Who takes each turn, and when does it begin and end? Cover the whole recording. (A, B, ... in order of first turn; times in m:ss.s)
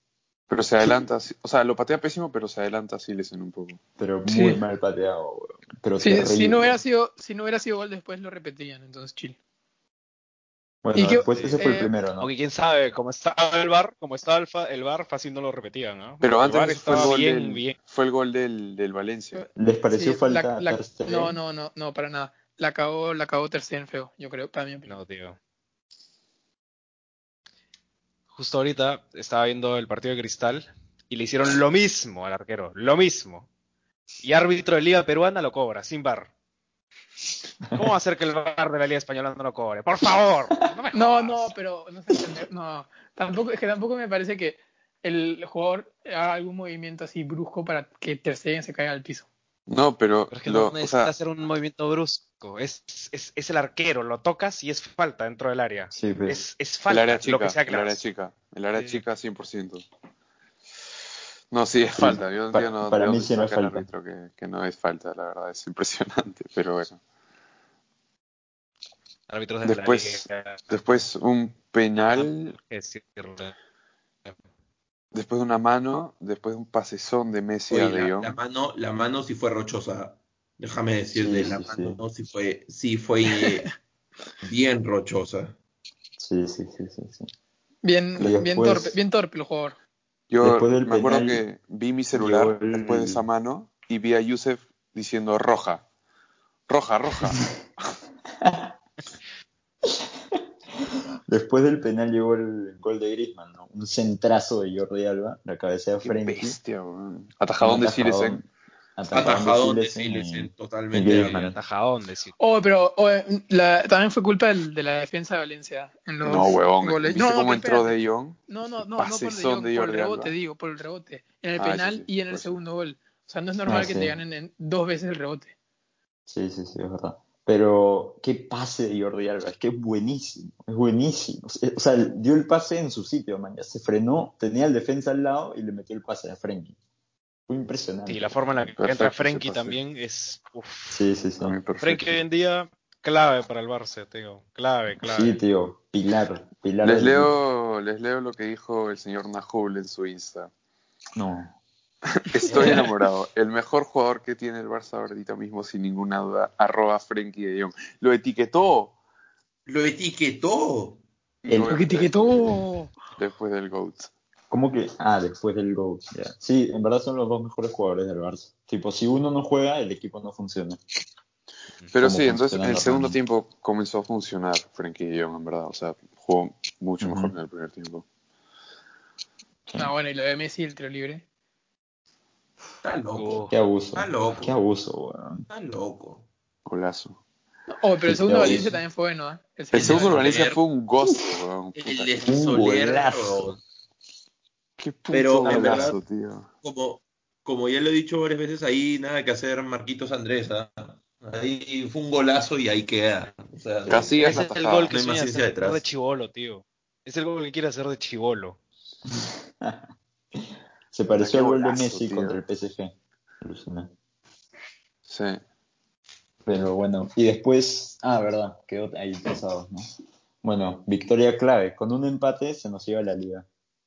0:00.5-0:03.8 A
0:04.0-0:06.8 B
0:04.3-0:04.6 C
0:06.0-0:09.4 C
0:10.8-0:12.3 B
0:10.9-0:11.9 C
0:11.2-0:11.6 D
0:12.2-0:17.8 D
0:16.2-0:19.4 A
0:19.3-0:24.9 C
0:19.6-0:21.4 B
0:24.9-0:25.4 D
0:28.3-0:33.5 D
0:34.2-0:36.3 D
0:37.7-0:41.5 D
0:40.9-0:49.3 C
0:49.7-0:51.1 A
0:50.3-0:58.0 D
0:55.9-0:56.4 B
0:56.9-0:59.8 A
0:58.7-0:59.0 D
1:01.5-1:07.0 A
1:01.9-1:03.9 B
1:09.3-1:11.0 D
1:09.6-1:12.6 A
1:12.0-1:13.5 D
1:15.1-1:18.4 A
1:17.7-1:23.7 E
1:21.2-1:22.0 B
1:23.4-1:23.6 C
1:24.4-1:25.5 E
1:26.2-1:27.3 B
1:27.8-1:29.8 C
1:28.2-1:29.0 B
1:30.3-1:35.8 A
1:30.4-1:31.4 B
1:32.1-1:33.2 B
1:36.7-1:37.4 A
1:38.4-1:38.7 B
1:41.3-1:46.6 B
1:46.0-1:48.4 A
1:47.6-1:51.6 B
1:49.1-1:51.4 E
1:51.1-1:52.3 D
1:52.4-1:57.9 C
1:56.2-1:58.4 A
1:58.5-2:05.5 C
1:59.0-2:00.3 A
2:01.6-2:02.6 A
2:03.6-2:04.2 B
2:06.3-2:16.7 B
2:17.5-2:18.4 B
2:18.1-2:21.0 D
2:18.8-2:19.8 A
2:20.9-2:21.6 B
2:21.4-2:22.2 A
2:21.8-2:25.4 D
2:25.1-2:27.3 B
2:26.8-2:30.5 A
2:31.1-2:31.6 B
2:32.1-2:38.9 A
2:32.5-2:32.8 E
2:39.7-2:41.0 E
2:41.4-2:42.5 A
2:41.4-2:41.8 B
2:41.6-2:42.9 C
2:43.2-2:44.1 A
2:44.5-2:50.8 B
2:51.9-2:58.0 A
2:52.0-2:53.2 B
2:57.0-2:57.3 B
2:59.7-3:01.2 C
3:02.8-3:04.5 E
3:03.1-3:03.5 D
3:03.5-3:05.4 B
3:05.5-3:06.2 E
3:06.6-3:07.2 A
3:07.7-3:10.3 C
3:08.0-3:08.8 B
3:09.7-3:10.6 E
3:09.7-3:12.1 A
3:11.7-3:13.6 E
3:12.2-3:13.5 B
3:14.8-3:16.5 A
3:15.1-3:16.0 E
3:15.4-3:15.9 B
3:16.6-3:25.8 E
3:23.9-3:24.9 A
3:24.2-3:28.6 D
3:29.1-3:29.8 B
3:30.4-3:33.9 B
3:31.2-3:32.4 A
3:35.1-3:35.4 A
3:36.4-3:39.9 B
3:40.4-3:43.4 B